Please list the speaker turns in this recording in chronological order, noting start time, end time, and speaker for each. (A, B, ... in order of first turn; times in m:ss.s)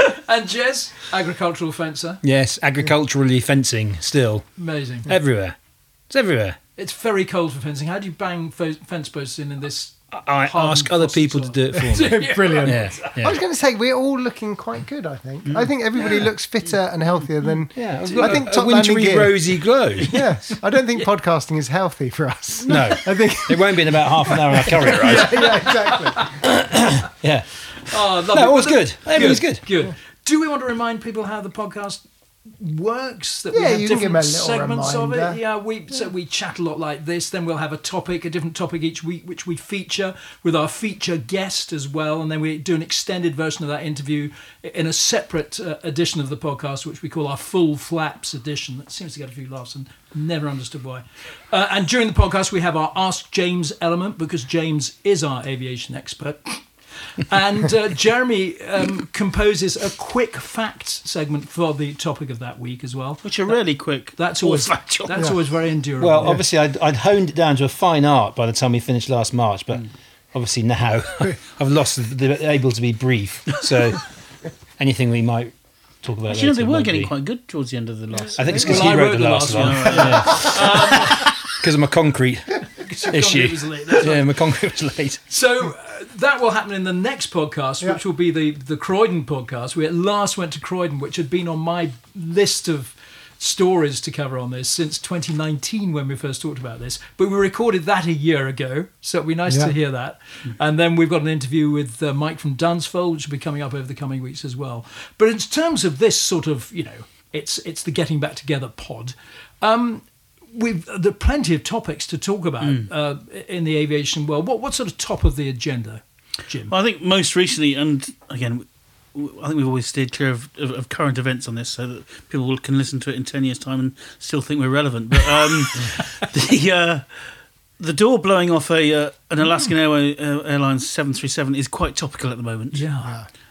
0:00.2-0:02.2 A
0:02.2-0:06.6 B
0:04.6-0:05.1 A
0:06.8-0:13.1 A
0:10.1-0:13.4 B
0:11.9-0:26.4 C
0:15.4-0:15.7 D
0:17.7-0:20.5 B
0:18.0-0:18.5 A
0:22.6-0:25.7 B
0:25.0-0:26.3 A
0:26.4-0:29.6 B
0:27.9-1:06.4 A
0:33.5-0:35.4 C
1:03.2-1:05.4 D
1:06.0-1:17.1 B
1:16.3-1:21.5 D
1:18.1-1:18.6 C
1:18.3-1:25.2 B
1:18.6-1:21.4 A
1:22.8-1:24.5 A
1:25.3-1:56.7 A
1:39.5-1:39.7 C
1:52.6-1:52.9 D
1:56.7-2:12.8 D
2:12.7-2:13.2 A